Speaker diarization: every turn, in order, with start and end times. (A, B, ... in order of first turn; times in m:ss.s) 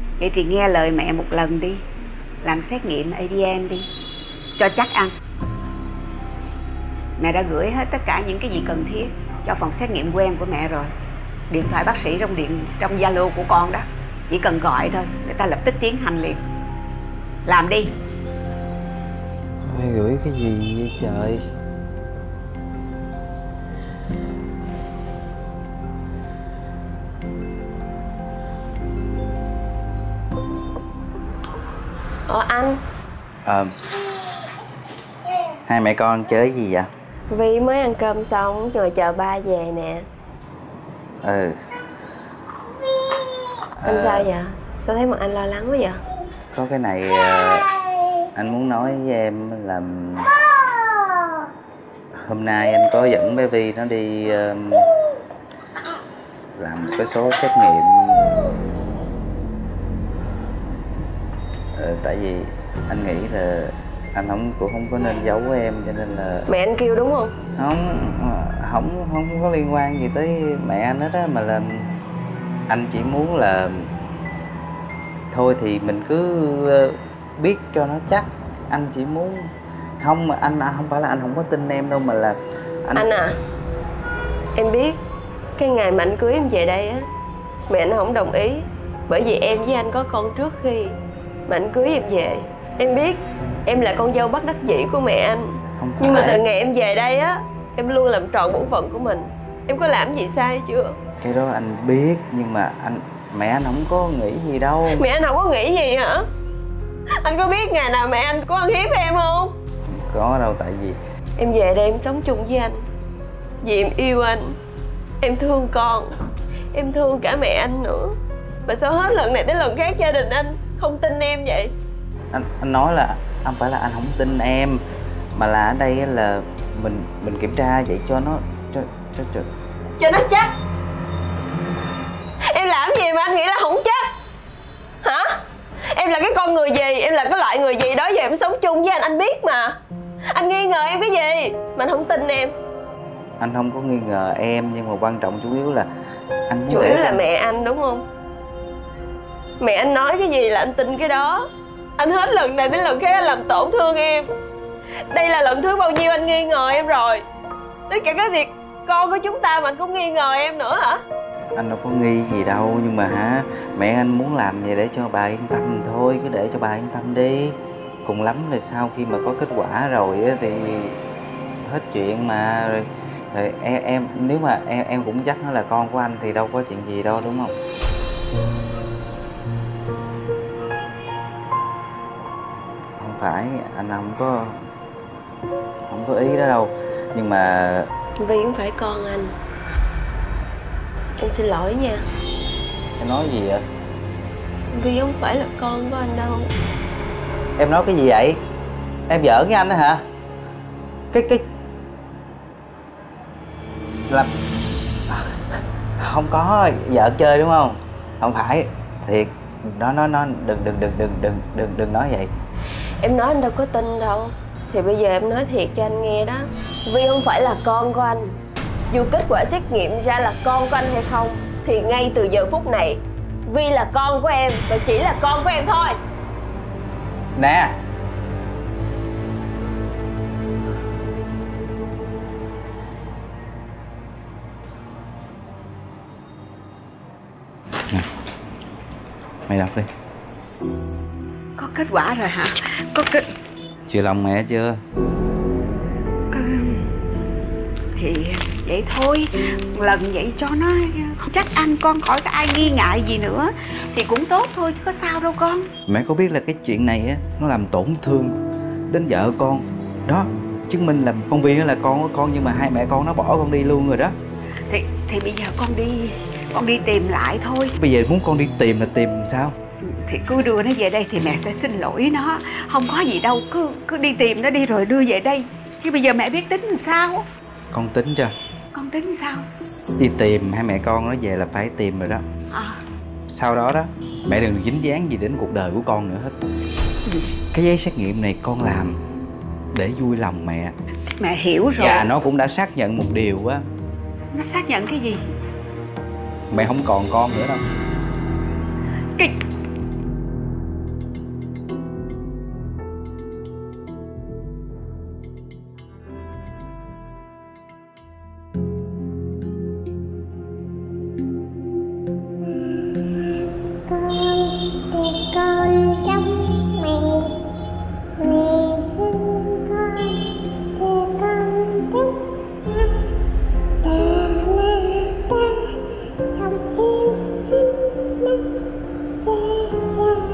0:00.2-0:01.8 A
0:02.4-0:03.9 A
0:04.6-0:05.1 A
0:07.2-0:10.9 A
0:11.5-0:16.4 A
0:17.4-0:17.9 A
0:19.6-0:21.4 B
0:32.3-0:32.8 C
0:33.4-0:33.7 B
0:35.7-0:36.9 B
0:37.3-0:40.0 C
0:41.2-0:41.5 B
0:43.8-0:44.3 B
0:43.8-0:46.0 C
0:46.5-0:47.7 B
0:48.4-0:50.3 B
0:52.2-0:54.9 B
0:56.6-0:58.3 B
1:01.7-1:06.4 B
1:06.5-1:07.3 C
1:07.6-1:11.8 B
1:12.7-1:13.9 B
1:15.3-1:23.1 B
1:23.0-1:23.3 C
1:24.5-1:25.0 C
1:25.6-1:27.0 C
1:27.7-1:30.9 C
1:31.5-1:35.4 C
1:35.8-1:36.4 B
1:36.0-1:40.9 C
1:41.2-1:45.0 B
1:44.9-1:46.2 C
1:47.2-1:49.5 C
1:49.9-1:51.0 B
1:51.4-1:52.8 C
1:53.6-1:54.5 C
1:55.2-1:56.1 C
1:56.7-1:58.1 C
1:58.6-2:01.7 C
2:02.3-2:04.8 B
2:05.3-2:09.5 B
2:10.0-2:10.5 C
2:12.4-2:14.0 C
2:15.0-2:15.3 C
2:15.9-2:19.8 C
2:20.3-2:22.5 C
2:23.4-2:25.9 B
2:26.5-2:27.2 B
2:26.7-2:28.0 C
2:29.6-2:31.4 C
2:32.0-2:34.3 C
2:35.1-2:37.2 C
2:37.9-2:41.0 C
2:41.6-2:51.0 B
2:51.6-2:57.5 B
3:03.0-3:04.6 B
3:05.9-3:07.9 B
3:08.2-3:09.3 C
3:11.2-3:12.0 C
3:13.0-3:13.6 B
3:14.7-3:16.5 C
3:17.6-3:18.4 B
3:19.1-3:20.0 B
3:21.1-3:21.4 B
3:25.1-3:25.4 B
3:26.0-3:32.3 B
3:33.0-3:38.3 C
3:38.9-3:45.9 C
3:47.4-3:47.8 B
3:59.5-3:59.9 B
4:01.6-4:03.3 A
4:03.9-4:04.8 B
4:06.3-4:06.9 A
4:07.9-4:15.7 A
4:15.9-4:18.4 B
4:18.9-4:24.1 B
4:24.7-4:27.7 A
4:27.8-4:29.5 B
4:29.8-4:37.2 A
4:37.7-4:38.3 B
4:38.7-4:39.4 A
4:40.0-4:42.2 B
4:42.5-4:42.8 A
4:43.3-4:46.3 B
4:47.5-4:49.0 B
4:49.7-4:50.7 B
4:51.1-4:52.1 A
4:51.8-4:53.6 B
4:54.3-4:55.2 A
4:56.5-4:57.6 B
5:13.9-5:17.4 D
5:18.2-5:20.2 D
5:20.8-5:22.2 D
5:23.8-5:25.2 D
5:26.3-5:27.3 D